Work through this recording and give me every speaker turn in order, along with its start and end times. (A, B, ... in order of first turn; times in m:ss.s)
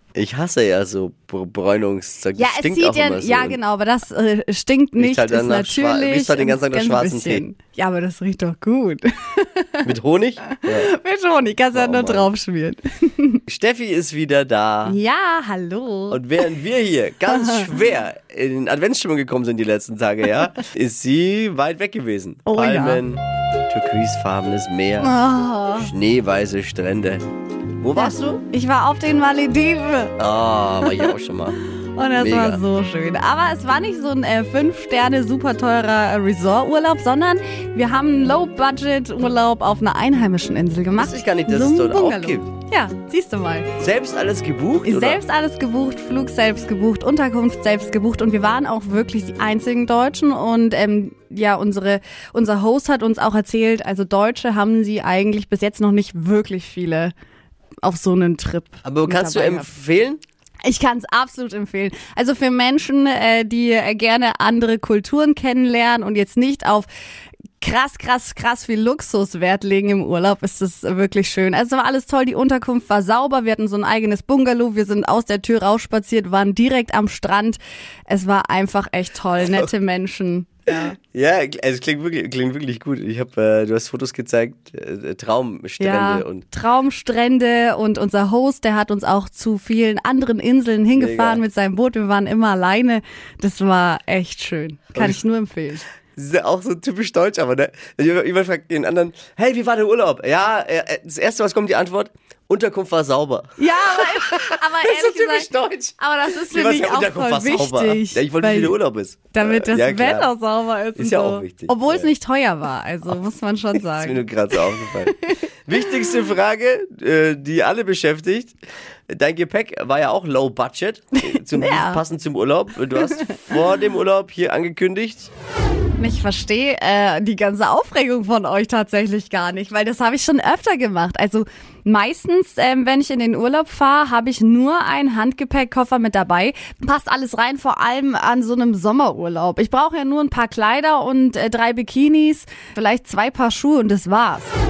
0:00.1-0:03.6 A
0:02.4-0:09.9 B
0:05.0-0:07.4 A
0:09.8-0:10.9 A
0:10.6-0:13.4 B
0:11.7-0:12.3 A
0:13.5-0:15.0 A
0:14.8-0:16.4 B
0:16.1-0:25.1 A
0:17.3-0:17.7 B
0:22.5-0:23.0 B
0:25.0-0:25.9 B
0:25.7-0:27.2 A
0:27.8-0:28.4 A
0:27.9-0:30.2 B
0:30.2-0:31.6 A
0:30.8-0:31.1 B
0:31.7-0:43.7 B
0:32.1-0:32.6 A
0:41.0-0:42.5 A
0:43.8-0:45.2 A
0:44.8-0:57.1 B
0:57.8-0:59.7 B
0:58.8-1:00.2 A
1:00.6-1:06.9 B
1:07.6-1:21.0 B
1:21.1-1:26.4 A
1:25.8-1:35.8 B
1:30.9-1:31.4 A
1:34.9-1:35.2 A
1:36.2-1:50.3 A
1:43.6-1:48.8 B
1:49.3-1:55.4 B
1:51.0-1:52.1 A
1:53.8-1:58.6 A
1:59.1-2:05.3 A
2:01.2-2:02.0 B
2:03.0-2:03.6 B
2:06.0-2:24.6 B